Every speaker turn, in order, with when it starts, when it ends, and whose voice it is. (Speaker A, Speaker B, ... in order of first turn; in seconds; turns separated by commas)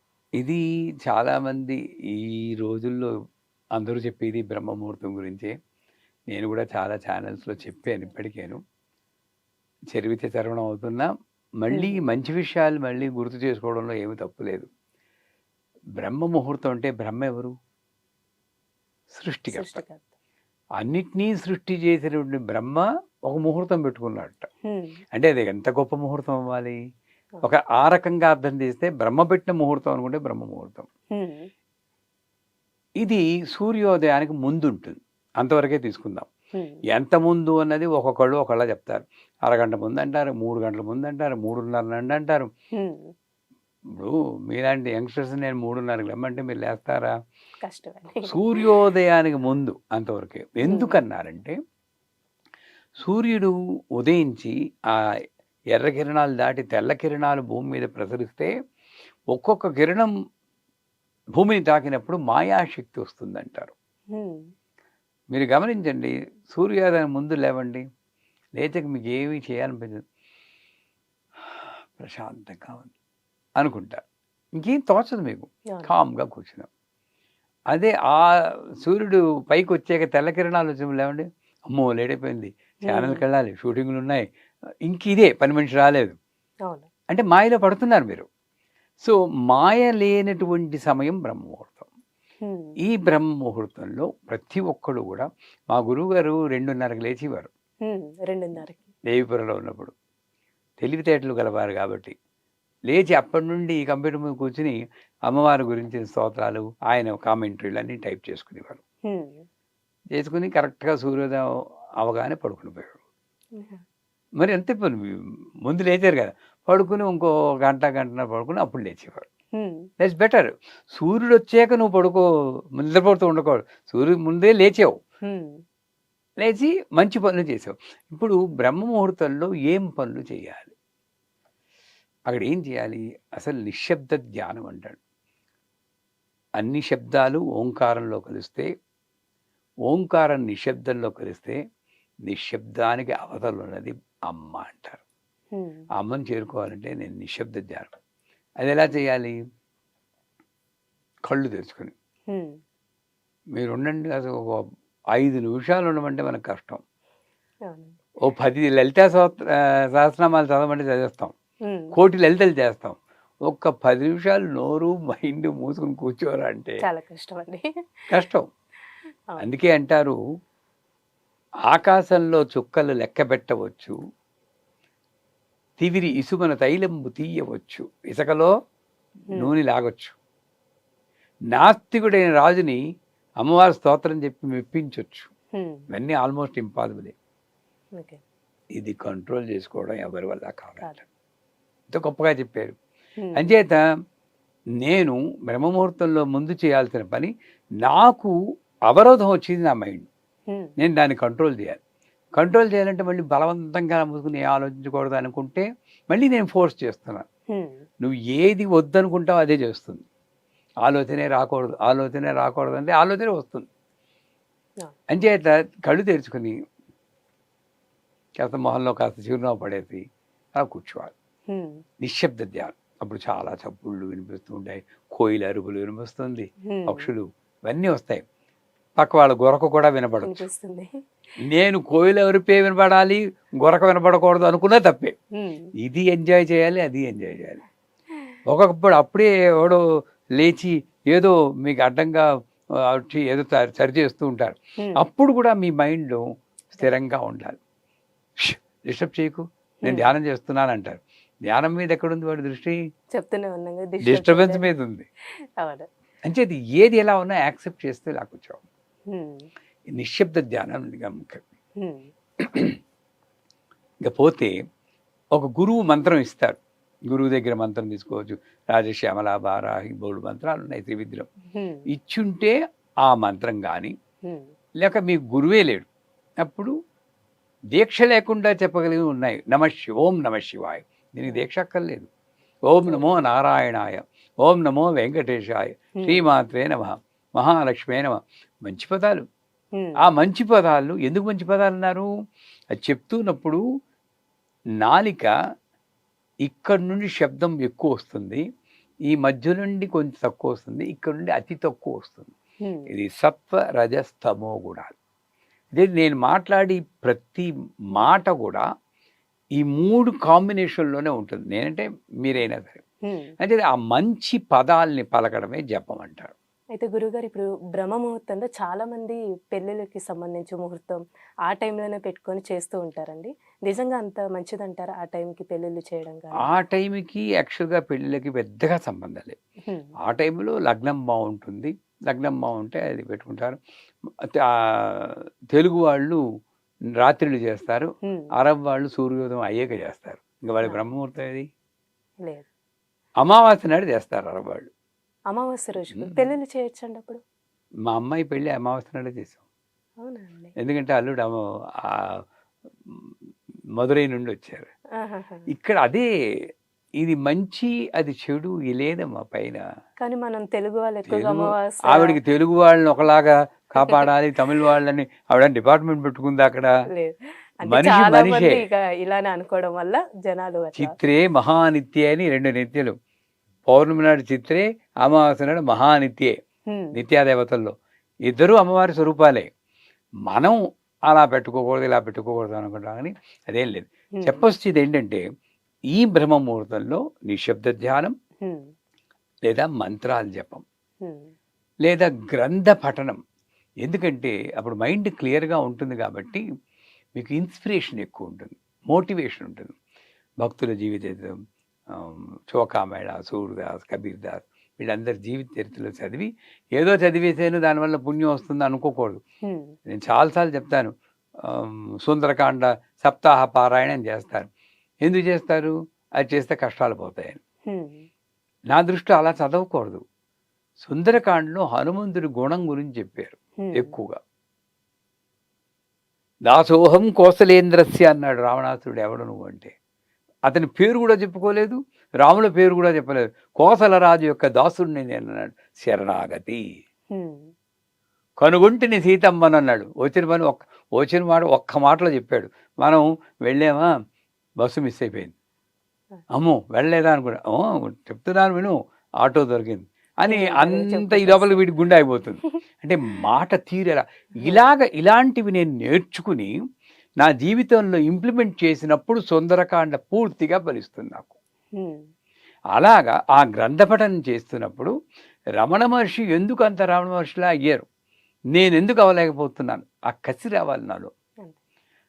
Speaker A: 0.4-3.1, Speaker A: 3.8-5.5, Speaker A: 6.3-8.6, Speaker A: 9.9-11.1, Speaker A: 11.6-14.7, Speaker B: 11.7-12.0, Speaker A: 16.0-17.5, Speaker A: 19.1-19.8, Speaker B: 19.5-20.1, Speaker A: 20.8-24.5, Speaker B: 24.7-25.0, Speaker A: 25.1-26.8, Speaker A: 27.4-30.9, Speaker B: 31.1-31.5, Speaker A: 33.0-36.3, Speaker B: 36.5-36.8, Speaker A: 36.9-42.5, Speaker B: 42.7-43.1, Speaker A: 43.9-47.1, Speaker B: 47.6-48.6, Speaker A: 48.3-51.6, Speaker B: 50.6-51.0, Speaker A: 53.0-55.1, Speaker A: 55.7-58.5, Speaker A: 59.3-60.1, Speaker A: 61.4-63.7, Speaker B: 64.1-64.4, Speaker A: 65.3-67.8, Speaker A: 68.6-70.0, Speaker A: 71.5-72.9, Speaker A: 73.6-74.0, Speaker A: 74.6-76.7, Speaker A: 77.7-84.2, Speaker B: 82.9-83.2, Speaker A: 84.9-86.2, Speaker A: 87.1-88.3, Speaker A: 89.0-91.9, Speaker B: 92.4-92.8, Speaker A: 92.8-97.5, Speaker B: 97.8-98.9, Speaker A: 99.1-99.9, Speaker A: 100.8-102.1, Speaker A: 102.9-104.8, Speaker A: 105.3-108.8, Speaker B: 109.1-109.5, Speaker A: 110.1-111.5, Speaker A: 112.0-113.0, Speaker B: 113.5-113.8, Speaker A: 114.4-119.3, Speaker B: 119.5-119.9, Speaker A: 120.0-122.2, Speaker A: 122.8-125.0, Speaker B: 125.2-125.5, Speaker A: 126.4-130.7, Speaker A: 132.3-135.0, Speaker A: 136.6-138.7, Speaker A: 139.9-141.6, Speaker A: 142.3-145.0, Speaker B: 145.5-145.8, Speaker A: 146.0-147.9, Speaker A: 148.6-149.3, Speaker A: 151.3-151.9, Speaker B: 152.3-152.6, Speaker A: 153.6-156.8, Speaker B: 157.7-158.0, Speaker A: 158.2-161.3, Speaker B: 161.7-161.9, Speaker A: 161.9-166.8, Speaker B: 166.8-167.6, Speaker A: 168.1-168.5, Speaker A: 169.4-170.2, Speaker A: 171.7-173.9, Speaker A: 175.8-178.5, Speaker A: 179.3-180.2, Speaker A: 181.5-182.8, Speaker A: 183.4-185.3, Speaker B: 185.6-185.8, Speaker A: 185.9-187.1, Speaker A: 188.8-191.0, Speaker A: 191.9-192.8, Speaker B: 193.2-193.5, Speaker A: 193.3-193.8, Speaker A: 194.8-198.3, Speaker A: 198.9-200.1, Speaker A: 200.8-201.8, Speaker A: 202.4-207.2, Speaker B: 207.5-207.8, Speaker A: 208.0-210.0, Speaker A: 210.8-213.7, Speaker A: 215.1-216.5, Speaker A: 218.4-220.0, Speaker A: 220.5-221.1, Speaker B: 221.5-221.8, Speaker A: 222.0-228.2, Speaker B: 226.7-227.1, Speaker A: 229.0-230.4, Speaker B: 230.2-230.9, Speaker A: 231.4-235.1, Speaker B: 235.4-235.7, Speaker A: 235.8-237.6, Speaker A: 238.5-239.8, Speaker A: 240.4-242.3, Speaker A: 242.8-247.6, Speaker A: 248.4-252.8, Speaker B: 249.8-250.1, Speaker B: 253.1-254.7, Speaker A: 254.0-255.1, Speaker B: 255.6-255.9, Speaker A: 256.3-258.6, Speaker B: 259.1-259.5, Speaker A: 259.9-261.4, Speaker B: 261.8-262.1, Speaker A: 262.4-262.8, Speaker A: 264.0-264.5, Speaker A: 265.4-266.6, Speaker A: 267.1-271.3, Speaker B: 271.5-271.9, Speaker A: 271.9-273.9, Speaker A: 274.8-275.9, Speaker A: 276.4-276.7, Speaker A: 277.7-282.1, Speaker A: 282.7-289.2, Speaker B: 282.9-283.2, Speaker B: 289.8-290.0, Speaker A: 290.0-292.1, Speaker A: 292.8-293.6, Speaker A: 294.8-295.3, Speaker A: 296.4-298.4, Speaker A: 299.1-302.3, Speaker B: 302.6-302.9, Speaker A: 302.9-304.9, Speaker A: 305.8-308.6, Speaker A: 309.6-312.8, Speaker B: 313.1-313.3, Speaker A: 313.4-316.3, Speaker B: 316.7-326.5, Speaker A: 326.4-329.4, Speaker A: 330.0-333.6, Speaker A: 334.2-336.2, Speaker A: 337.0-341.5, Speaker B: 338.1-338.3, Speaker A: 343.2-344.7, Speaker B: 345.3-347.2, Speaker A: 345.9-346.2, Speaker A: 347.9-349.4, Speaker B: 350.0-350.5, Speaker A: 350.6-352.2, Speaker A: 352.9-353.1, Speaker A: 353.8-354.7, Speaker B: 355.0-355.5, Speaker A: 355.5-356.1, Speaker A: 357.0-359.6, Speaker B: 360.0-362.2, Speaker A: 361.1-366.7, Speaker B: 363.8-364.7, Speaker B: 366.9-370.9, Speaker A: 367.7-368.6, Speaker A: 370.7-372.9, Speaker A: 373.7-376.4, Speaker B: 376.7-377.0, Speaker A: 376.9-377.7, Speaker A: 378.3-379.5, Speaker A: 380.3-385.2, Speaker A: 385.9-388.1, Speaker A: 389.5-390.6, Speaker B: 391.0-391.3, Speaker A: 391.8-393.2, Speaker A: 393.8-396.4, Speaker A: 397.1-399.7, Speaker A: 400.4-401.4, Speaker A: 401.9-409.2, Speaker B: 409.4-409.7, Speaker A: 409.9-410.9, Speaker A: 411.4-414.5, Speaker A: 415.0-417.4, Speaker B: 417.7-418.1, Speaker A: 418.7-420.0, Speaker A: 420.8-424.2, Speaker B: 423.6-423.9, Speaker A: 426.5-429.7, Speaker A: 430.5-436.6, Speaker B: 437.1-437.5, Speaker A: 438.4-443.9, Speaker A: 444.6-445.3, Speaker A: 446.3-456.5, Speaker B: 450.3-451.6, Speaker B: 454.4-454.7, Speaker A: 457.2-461.4, Speaker B: 461.8-462.0, Speaker A: 462.7-464.9, Speaker A: 465.6-467.9, Speaker A: 468.5-471.1